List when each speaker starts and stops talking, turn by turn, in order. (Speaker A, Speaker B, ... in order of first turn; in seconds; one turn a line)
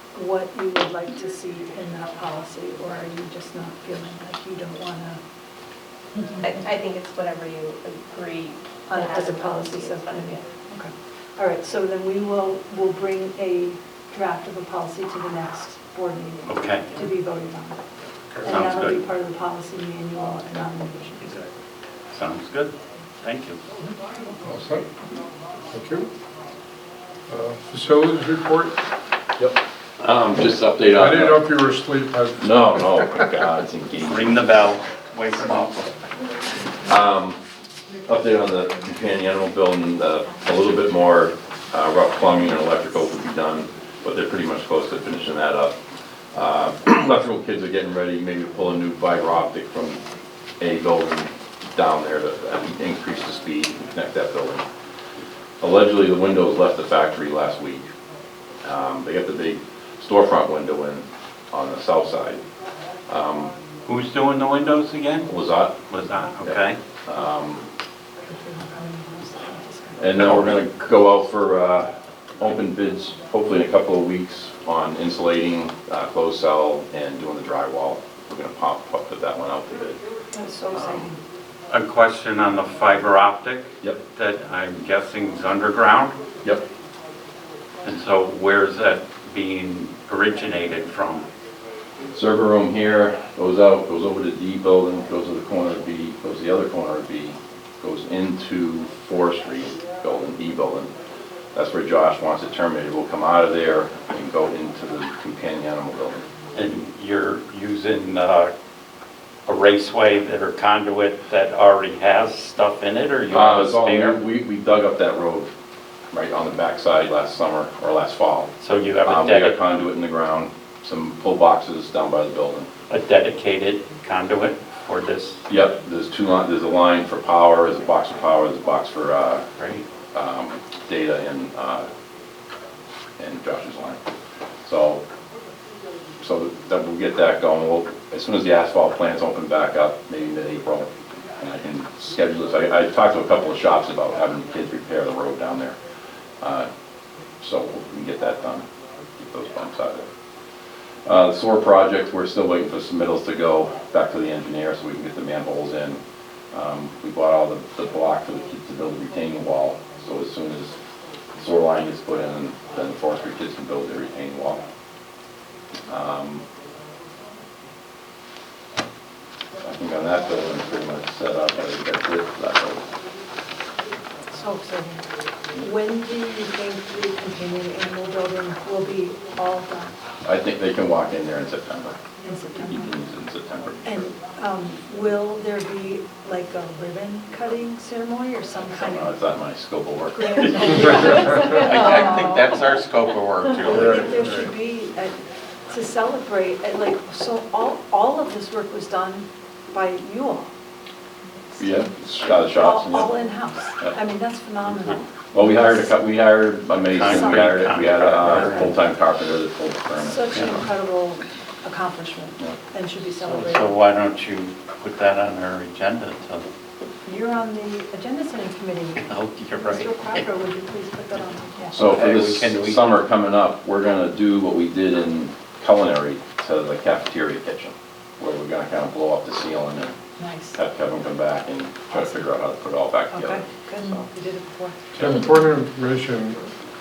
Speaker A: 0.1-5.2
Speaker B: 6.4-10.4
Speaker A: 8.9-17.8
Speaker C: 16.5-16.9
Speaker A: 18.4-21.4
Speaker C: 18.4-19.0
Speaker C: 22.1-23.6
Speaker D: 24.4-24.9
Speaker D: 25.7-26.1
Speaker D: 27.3-28.8
Speaker E: 29.4-31.5
Speaker D: 30.9-33.0
Speaker E: 32.4-34.4
Speaker C: 34.0-35.9
Speaker E: 36.8-37.4
Speaker E: 38.0-45.8
Speaker E: 46.3-50.0
Speaker E: 50.6-54.6
Speaker E: 55.6-57.9
Speaker E: 58.6-62.4
Speaker E: 63.1-63.5
Speaker C: 63.9-65.3
Speaker E: 65.3-65.9
Speaker C: 65.9-66.8
Speaker E: 66.4-67.6
Speaker A: 68.2-70.3
Speaker E: 70.0-80.0
Speaker C: 70.2-70.6
Speaker A: 80.3-81.2
Speaker E: 80.7-81.1
Speaker C: 81.7-86.2
Speaker C: 87.8-91.3
Speaker E: 92.1-100.9
Speaker E: 101.5-106.2
Speaker C: 106.5-108.5
Speaker C: 109.5-114.2
Speaker E: 113.3-115.5
Speaker E: 116.1-118.5
Speaker C: 118.6-119.9
Speaker E: 119.0-122.7
Speaker C: 122.9-125.4
Speaker E: 125.5-129.5
Speaker C: 129.6-129.9
Speaker E: 130.1-131.9
Speaker E: 133.2-134.0
Speaker E: 134.6-135.0
Speaker E: 136.2-145.8
Speaker E: 146.4-146.7
Speaker E: 147.4-148.6
Speaker E: 149.2-150.1
Speaker E: 151.0-156.0
Speaker E: 156.5-160.8
Speaker E: 161.3-164.6
Speaker E: 165.9-166.4
Speaker E: 169.6-172.8
Speaker A: 174.3-179.9
Speaker E: 180.2-182.0
Speaker A: 182.2-182.9
Speaker E: 182.6-184.0
Speaker A: 183.8-189.1
Speaker E: 188.7-191.3
Speaker A: 190.2-192.6
Speaker C: 190.6-194.2
Speaker A: 193.7-195.2
Speaker D: 193.7-194.5
Speaker A: 195.7-200.5
Speaker E: 201.6-203.1
Speaker A: 202.3-205.9
Speaker E: 205.3-210.7
Speaker C: 206.9-208.7
Speaker A: 207.0-207.7
Speaker A: 208.3-208.7
Speaker A: 210.0-213.7
Speaker C: 213.2-216.5
Speaker A: 217.0-221.8
Speaker C: 219.1-220.2
Speaker E: 221.7-229.9
Speaker C: 221.8-222.9
Speaker A: 230.2-230.6
Speaker E: 230.5-234.1
Speaker A: 231.9-232.2
Speaker A: 233.1-235.3
Speaker D: 234.9-236.4